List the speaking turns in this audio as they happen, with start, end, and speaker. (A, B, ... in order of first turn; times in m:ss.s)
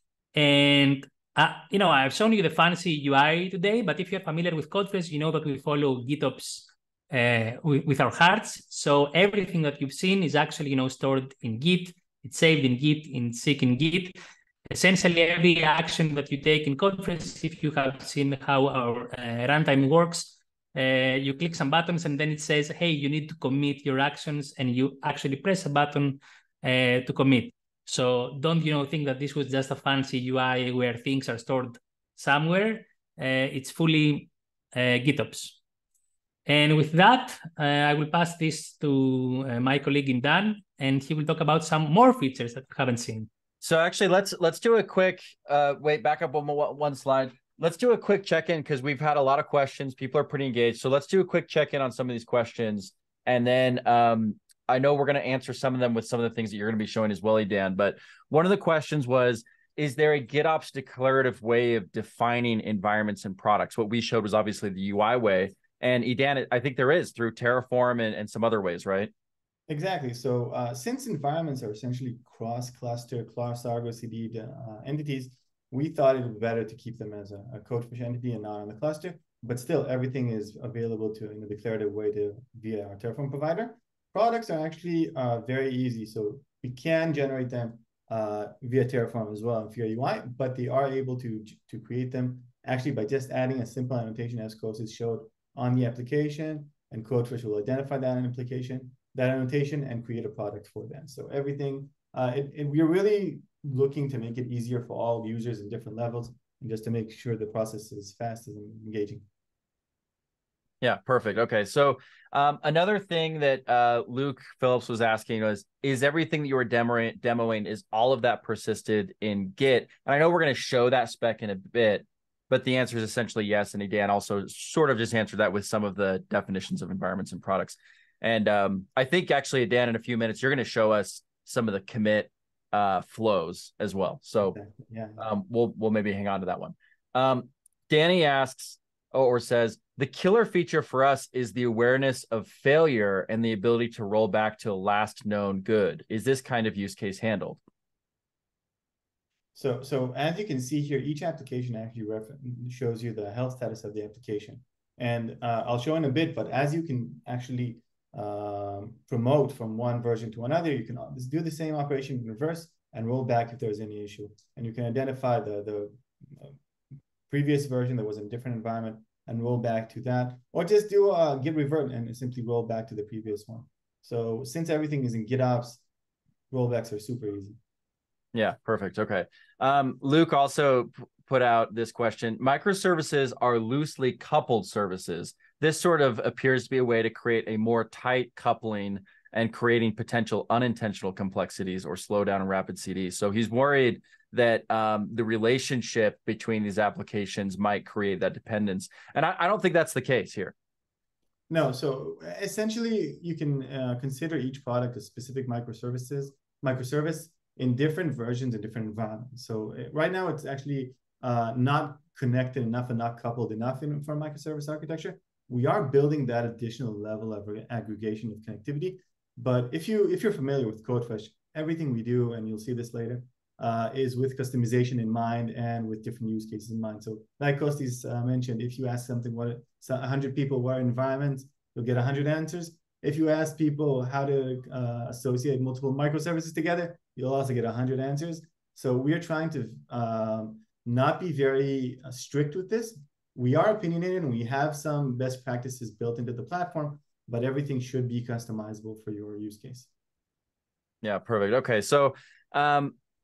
0:00.4-0:14.2 A
0:14.7-0:35.6 A
0:36.5-0:43.3 A
0:43.6-1:09.1 B
1:09.7-1:49.2 C
1:50.8-2:14.6 B
2:14.4-2:15.2 C
2:15.2-2:27.6 B
2:29.6-2:46.5 C
2:47.3-2:55.8 C
2:56.5-2:57.6 C
2:58.3-3:20.5 B
3:21.5-4:09.9 C
4:11.0-4:13.0 B